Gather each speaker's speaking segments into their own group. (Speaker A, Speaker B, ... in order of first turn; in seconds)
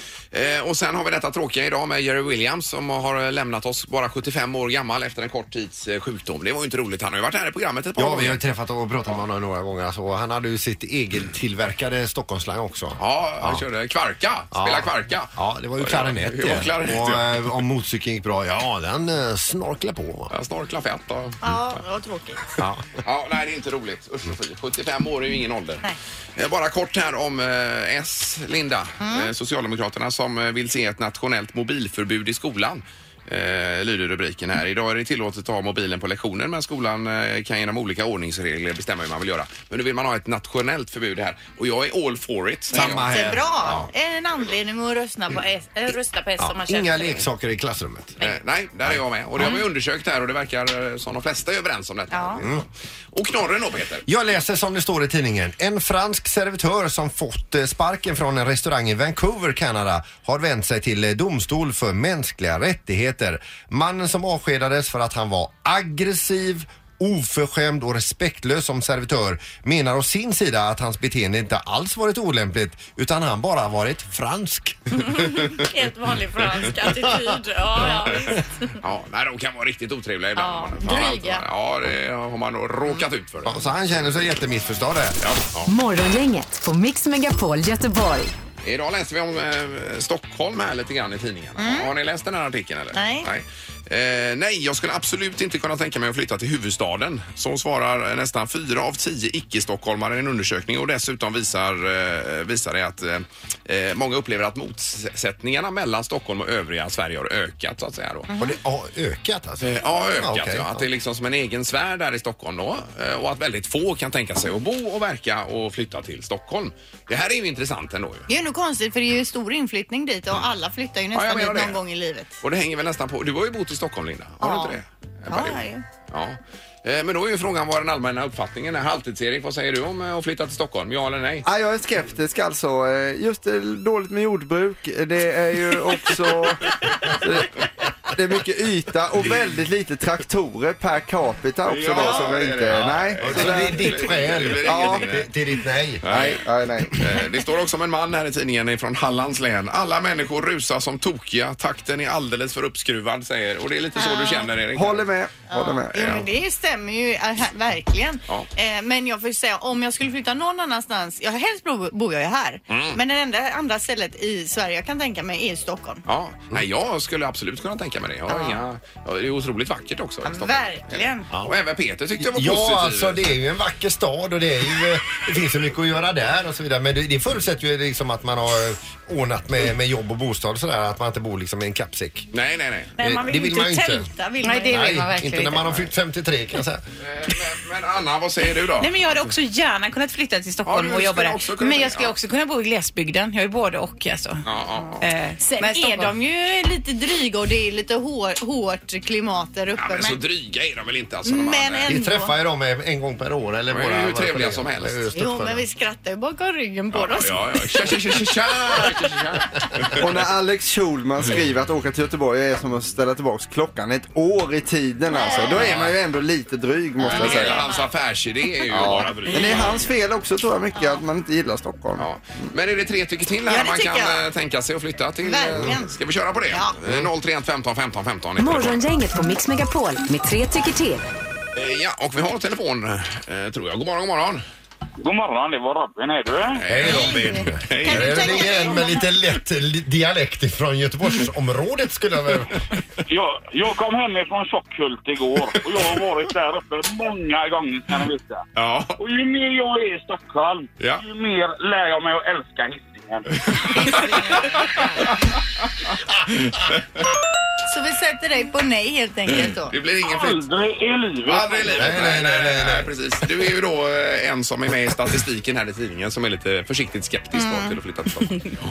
Speaker A: 0.3-8.4, 13.0-17.4, 20.3-21.8, 23.0-25.9, 26.4-43.9, 48.2-52.6, 53.1-54.1, 78.8-83.7, 85.2-85.7, 88.6-108.3, 109.6-118.3, 121.1-121.8, 122.4-131.4, 141.7-145.3, 146.0-155.1, 155.9-156.2, 162.7-163.0, 166.1-173.2, 182.3-182.9, 187.0-189.0, 190.7-192.1, 194.4-195.1, 199.8-201.9, 203.7-205.1, 206.9-210.0, 215.3-215.9, 217.0-219.8, 222.0-228.8, 231.6-234.4, 236.6-238.7, 248.6-249.0, 253.5-255.1, 256.5-256.8, 259.3-260.4, 261.3-268.5
Speaker B: 8.0-13.6, 14.5-20.3, 22.6-23.0, 42.7-43.8, 46.4-48.2, 52.4-52.6, 54.1-75.3, 83.5-85.2, 108.4-110.9, 142.8-146.4, 172.2-182.3, 183.0-184.1, 184.7-186.8, 201.9-205.7, 236.7-242.6, 261.8-262.9
Speaker C: 21.4-22.6, 29.0-29.3, 42.8-47.3, 52.1-52.4, 74.9-78.8, 80.4-81.5, 91.6-91.9, 92.9-93.3, 108.3-108.5, 118.3-122.4, 124.4-124.8, 125.3-125.8, 154.0-154.5, 155.5-166.0, 168.3-168.6, 170.2-171.3, 183.0-185.0, 195.6-200.2, 201.2-202.3, 205.1-208.9, 215.1-215.8, 217.1-217.9, 219.3-219.6, 220.8-221.0, 223.5-224.3, 225.2-225.9, 226.5-226.8, 236.8-239.1, 253.8-254.8, 257.6-259.7, 267.3-267.8
Speaker D: 85.7-88.3, 228.4-231.1
Speaker E: 131.4-137.6, 138.1-144.0, 144.6-145.1, 146.1-147.0, 154.7-156.2, 210.0-217.7, 218.7-222.1
Speaker F: 184.4-185.7, 188.8-194.4, 195.0-196.1
Speaker G: 235.0-236.6, 243.1-248.4, 249.0-253.3, 260.0-262.1